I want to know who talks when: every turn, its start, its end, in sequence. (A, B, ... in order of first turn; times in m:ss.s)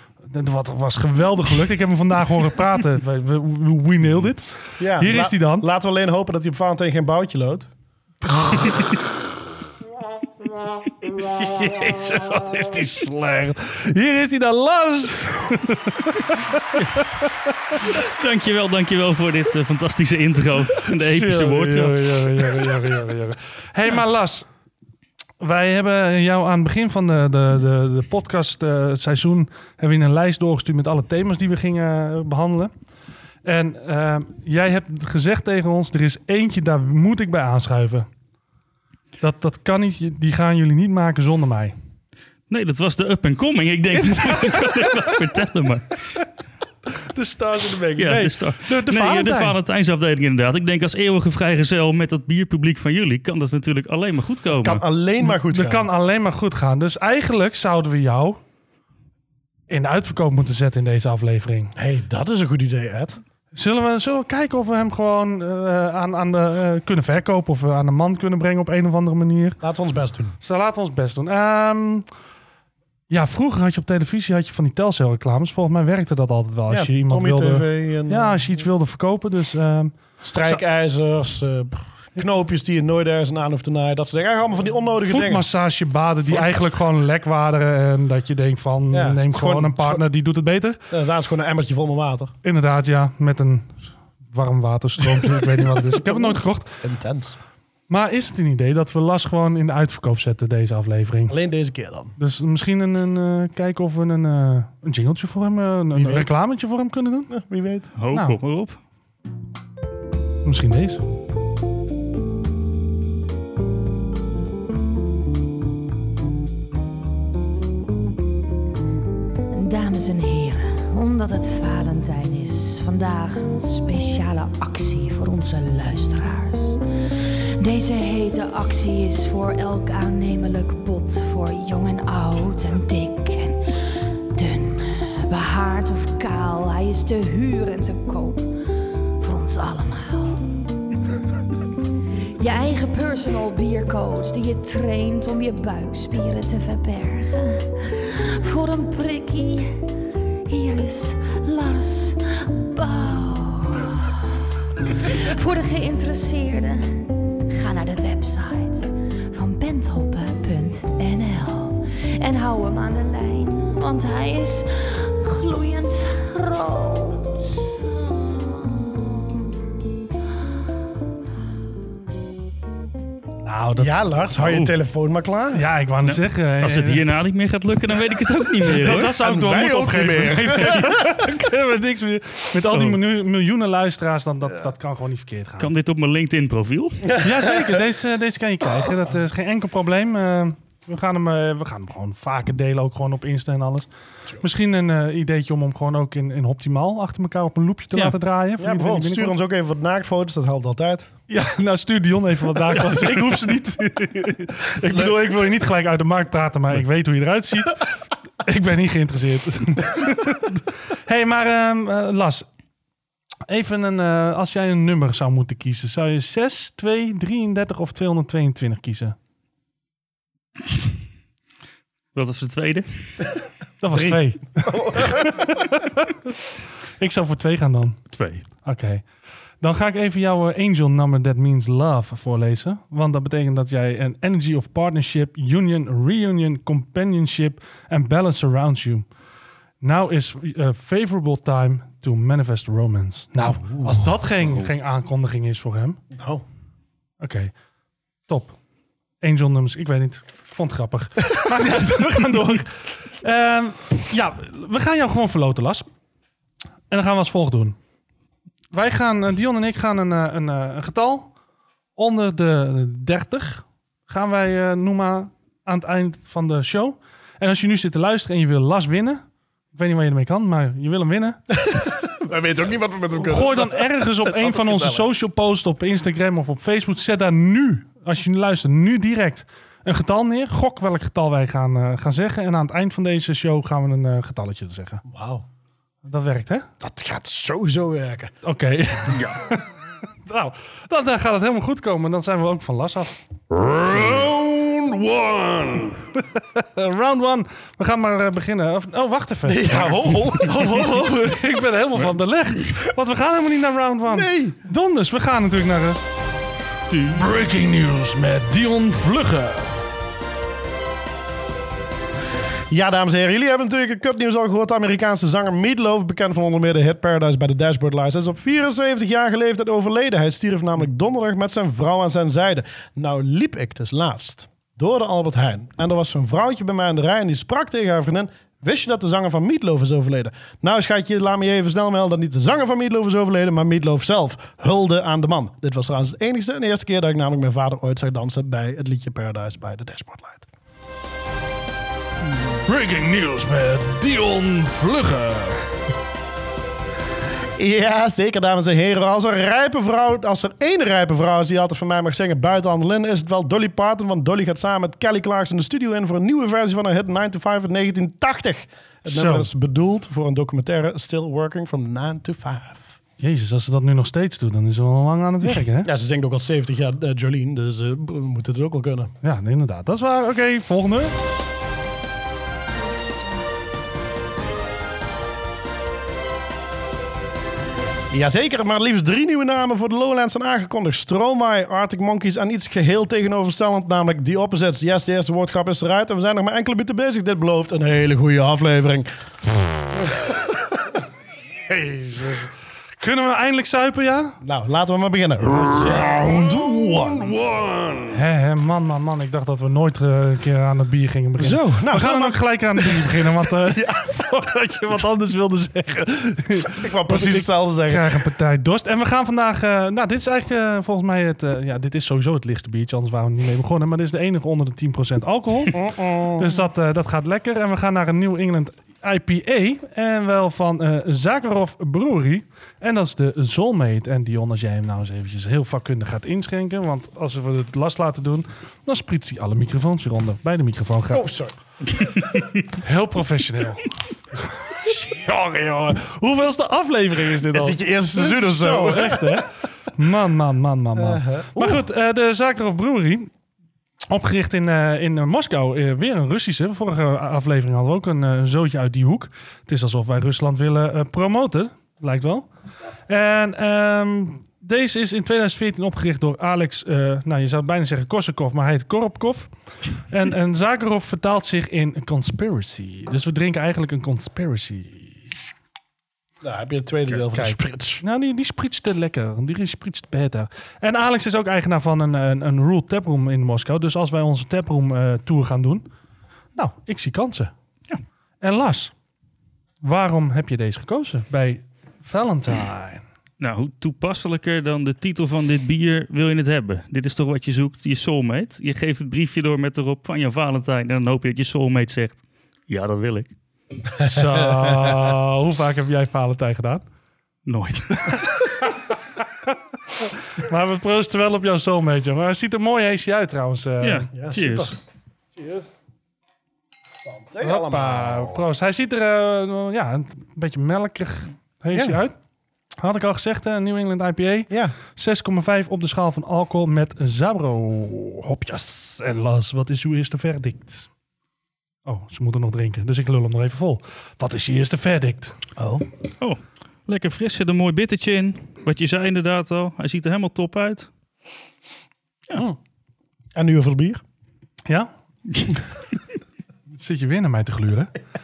0:00.2-0:05.6 A
0:04.8-0:07.7 B
0:08.3-0:08.9 A
0:11.0-0:17.0 A
0:17.9-0:22.6 C
0:21.0-0:24.5 A
0:25.4-0:32.7 A
0:33.4-0:38.1 A
0:39.2-0:41.8 A
0:42.5-0:45.9 C
0:43.9-0:45.1 A
0:46.9-0:49.6 A
0:48.0-0:54.8 C
0:54.5-0:55.9 B
0:55.2-0:58.4 A
0:59.7-1:01.7 A
1:01.8-1:03.2 B
1:03.5-1:09.6 A
1:09.6-1:10.4 B
1:10.4-1:12.0 A
1:13.1-1:20.6 A
1:16.7-1:18.7 B
1:20.2-1:25.5 B
1:25.0-1:30.8 A
1:26.3-1:26.6 B
1:28.9-1:30.0 B
1:30.9-1:32.3 B
1:32.4-1:36.8 A
1:35.1-1:37.4 B
1:37.9-1:41.3 A
1:41.3-1:42.1 B
1:42.2-1:47.3 A
1:45.9-1:46.3 B
1:47.3-1:47.9 B
1:48.0-1:48.8 C
1:48.1-1:48.4 A
1:50.4-1:51.0 A
1:59.5-2:18.5 D
2:19.2-2:20.5 D
2:22.4-2:29.9 D
2:30.5-2:34.3 D
2:34.9-2:47.3 D
2:48.0-2:49.1 D
2:53.4-2:54.2 A
2:53.8-2:55.6 B
2:54.4-2:54.7 C
2:55.5-2:57.0 A
2:56.0-2:59.1 C
2:58.7-3:01.2 B
2:58.7-3:05.7 A
3:02.7-3:03.0 C
3:05.6-3:07.2 C
3:07.1-3:07.8 B
3:07.2-3:13.9 A
3:14.4-3:19.3 A
3:18.6-3:21.1 B
3:21.3-3:27.8 A
3:24.8-3:25.3 B
3:28.4-3:32.5 A
3:33.5-3:39.2 A
3:42.1-3:43.3 C
3:43.8-3:46.1 A
3:43.9-3:45.7 B
3:47.0-3:48.0 A
3:48.1-3:48.4 C
3:48.6-3:49.0 A
3:49.6-3:59.0 A
3:59.8-4:06.0 A
4:03.4-4:04.1 B
4:06.1-4:06.4 B
4:07.2-4:07.5 A
4:08.3-4:08.6 A
4:09.2-4:15.8 A
4:16.9-4:17.8 A
4:18.7-4:21.3 A
4:22.0-4:29.2 A
4:29.7-4:31.4 A
4:31.6-4:35.1 B
4:33.2-4:45.0 A
4:45.0-4:45.4 B
4:46.0-4:46.7 A
4:46.8-4:48.3 B
4:48.4-4:49.6 A
4:50.2-4:53.2 A
4:53.5-4:56.0 E
4:56.3-4:59.7 A
4:59.4-5:00.8 B
5:00.4-5:06.0 A
5:04.1-5:04.6 B
5:06.9-5:07.2 C
5:07.1-5:09.8 A
5:12.7-5:40.5 B
5:42.7-5:45.6 A
5:47.6-6:02.9 B
5:59.0-5:59.5 A
6:03.2-6:05.9 A
6:05.8-6:09.1 B
6:09.2-6:11.1 A
6:18.1-6:29.1 B
6:29.9-6:30.6 B
6:31.8-6:32.4 A
6:33.0-6:34.4 A
6:34.4-6:37.3 B
6:35.6-6:38.1 E
6:38.1-6:55.8 A
6:41.4-6:44.0 B
6:46.6-6:48.1 B
6:55.7-6:56.6 B
6:56.4-7:11.2 A
7:11.1-7:11.5 B
7:12.7-7:13.9 A
7:14.7-7:23.3 A
7:17.5-7:19.4 B
7:21.0-7:21.8 B
7:24.1-7:32.5 A
7:33.1-7:39.5 A
7:40.1-7:45.3 A
7:46.4-7:48.0 B
7:47.1-7:55.9 A
7:56.5-7:57.5 A
7:58.4-7:58.9 A
7:59.8-8:03.0 A
8:03.4-8:13.3 C
8:14.0-8:15.0 B
8:14.0-8:16.8 A
8:17.4-8:18.3 C
8:20.4-8:24.1 A
8:23.8-8:24.8 C
8:24.1-8:24.8 B
8:25.4-8:25.7 B
8:27.1-8:28.4 B
8:27.4-8:32.1 A
8:31.7-8:32.0 B
8:32.8-8:40.9 A
8:34.5-8:34.7 B
8:41.8-8:45.3 A
8:45.6-8:45.8 B
8:46.2-8:50.9 C
8:53.3-8:54.0 B
8:56.8-8:57.9 A